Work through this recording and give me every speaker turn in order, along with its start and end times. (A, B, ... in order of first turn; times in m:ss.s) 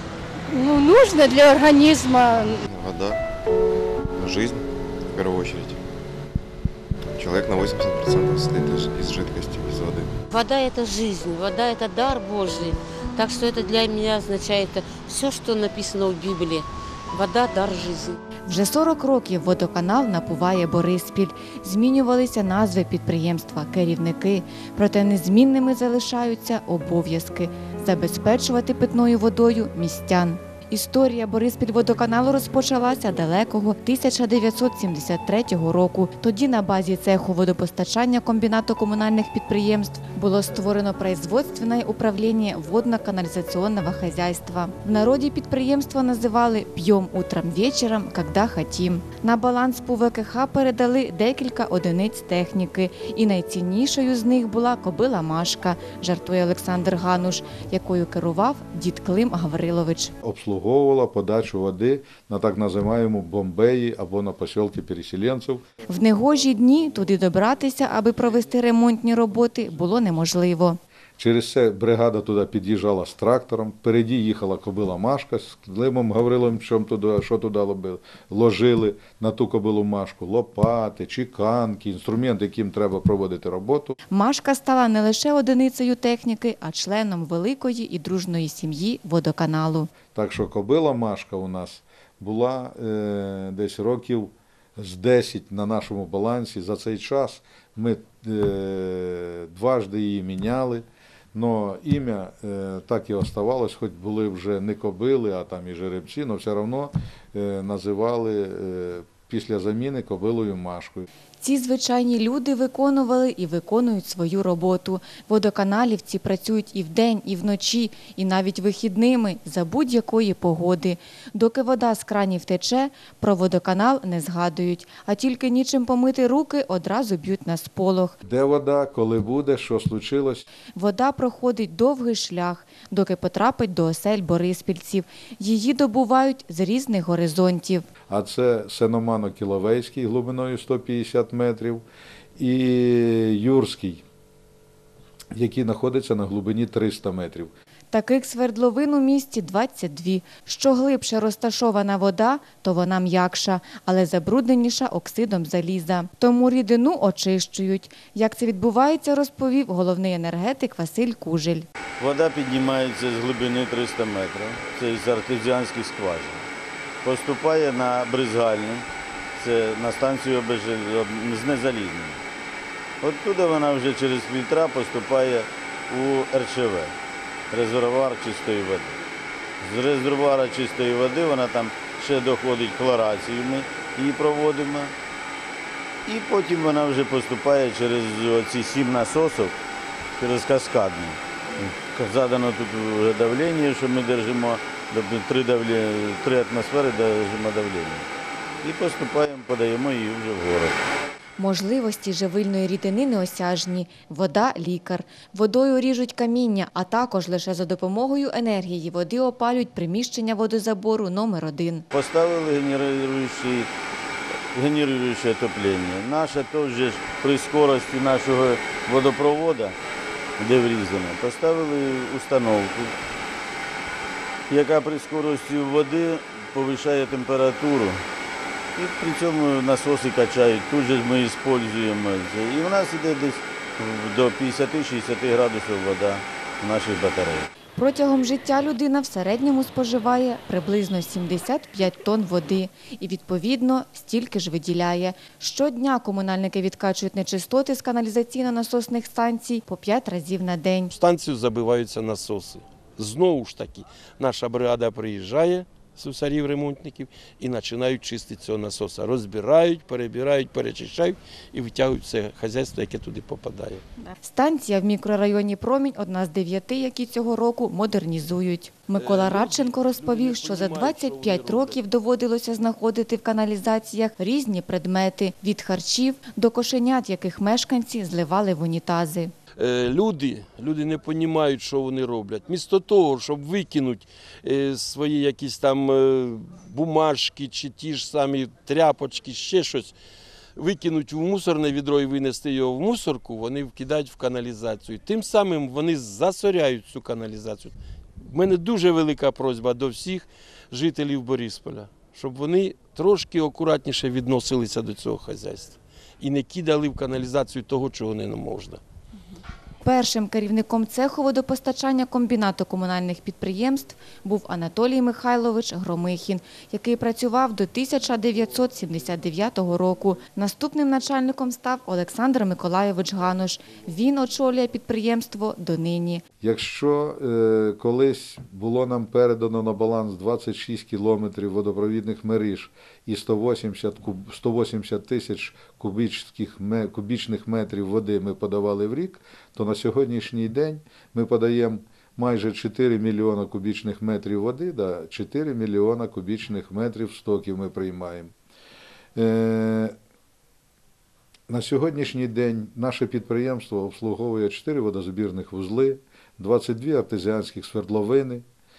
0:00.5-0:02.6 A
0:02.6-0:03.2 B
0:04.2-0:05.8 B
0:07.1-0:10.1 B
0:10.3-0:18.2 C
0:18.4-1:00.1 D
1:00.2-1:05.6 E
1:05.9-1:10.8 D
1:11.2-1:24.0 E
1:24.1-1:29.9 D
1:30.1-1:51.1 E
1:51.4-2:08.2 D
2:08.2-2:10.4 E
2:10.7-2:17.8 D
2:18.1-2:21.8 E
2:22.4-2:24.0 E
2:25.3-2:27.5 E
2:27.9-2:41.7 D
2:42.0-2:46.5 F
2:47.0-2:52.2 F
2:53.0-2:57.0 F
2:57.5-2:59.0 F
2:59.6-3:04.9 F
3:06.0-3:09.6 F
3:10.2-3:18.1 F
3:18.6-3:20.9 F
3:21.4-3:31.8 D
3:31.9-3:33.7 F
3:34.5-3:39.8 F
3:40.4-3:43.0 F
3:44.5-3:48.0 F
3:48.8-3:57.5 F
3:57.8-4:10.9 D
4:10.9-4:23.8 G
4:24.2-4:39.3 D
4:28.9-4:31.8 G
4:39.6-4:49.9 G
4:50.6-4:57.7 G
4:58.2-5:08.8 G
5:09.8-5:26.2 D
5:26.4-5:48.3 E
5:49.1-5:49.9 E
5:51.5-5:58.4 E